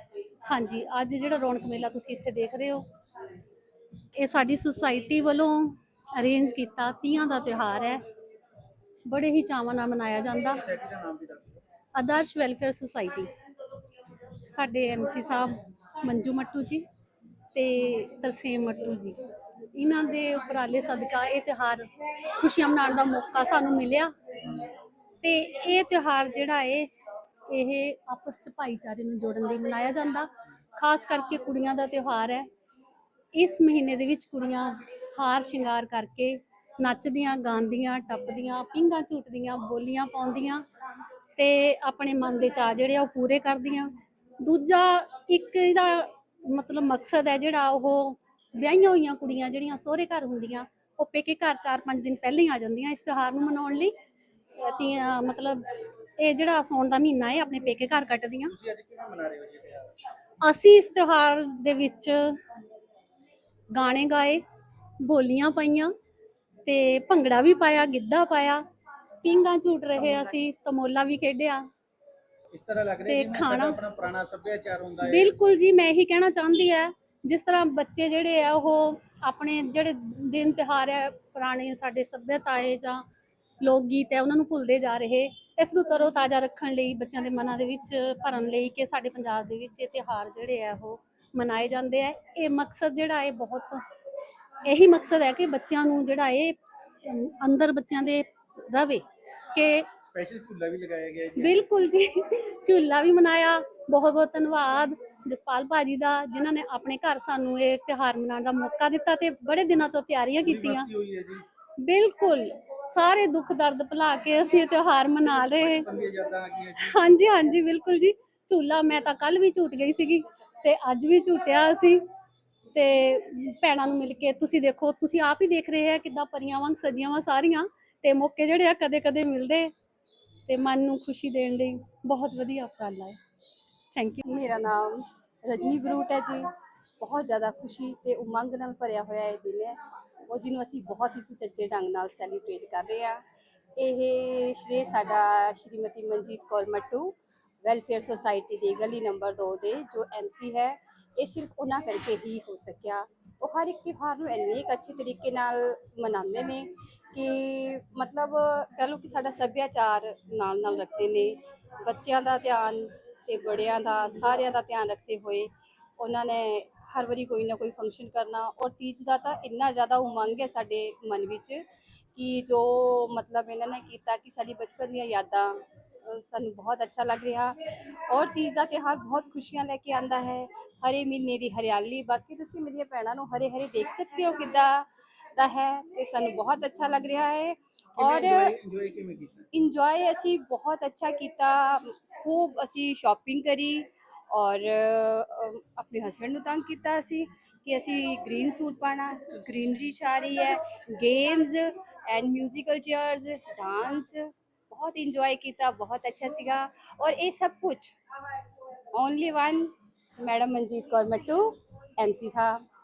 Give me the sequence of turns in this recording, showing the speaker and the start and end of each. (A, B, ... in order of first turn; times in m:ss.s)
0:00.5-0:02.8 A
0:04.2-0:08.0 A
0:09.0-0:10.6 A
0:10.5-0:11.6 B
0:11.9-0:13.3 A
0:14.5-0:16.8 A
0:17.5-0:19.2 A
0:19.7-0:21.8 A
0:22.4-0:24.1 A
0:25.2-0:26.9 A
0:27.5-0:32.5 A
0:33.3-0:40.6 A
0:41.4-0:43.9 A
0:44.4-0:53.9 A
0:54.6-0:55.6 A
0:56.2-0:58.5 A
0:58.4-0:59.9 B
1:00.4-1:02.3 A
1:03.7-1:04.4 A
1:05.0-1:05.9 A
1:06.6-1:08.6 A
1:09.2-1:11.6 A
1:10.0-1:10.4 C
1:12.5-1:15.4 B
1:13.0-1:13.8 A
1:15.0-1:23.0 A
1:23.6-1:33.8 A
1:34.6-1:39.9 A
1:40.0-1:41.6 B
1:41.4-1:50.9 A
1:50.4-1:51.4 B
1:51.8-1:55.9 A
1:55.2-1:57.0 B
1:56.8-2:02.0 A
2:02.7-2:09.7 A
2:10.5-2:13.2 A
2:14.0-2:14.2 A
2:14.2-2:16.4 C
2:17.0-2:19.8 C
2:20.3-2:23.2 C
2:23.8-2:51.6 C
2:52.1-2:55.5 C
2:56.0-2:57.6 C
2:58.1-3:08.5 C
3:08.0-3:09.4 B
3:09.5-3:28.0 C
3:28.9-3:32.6 C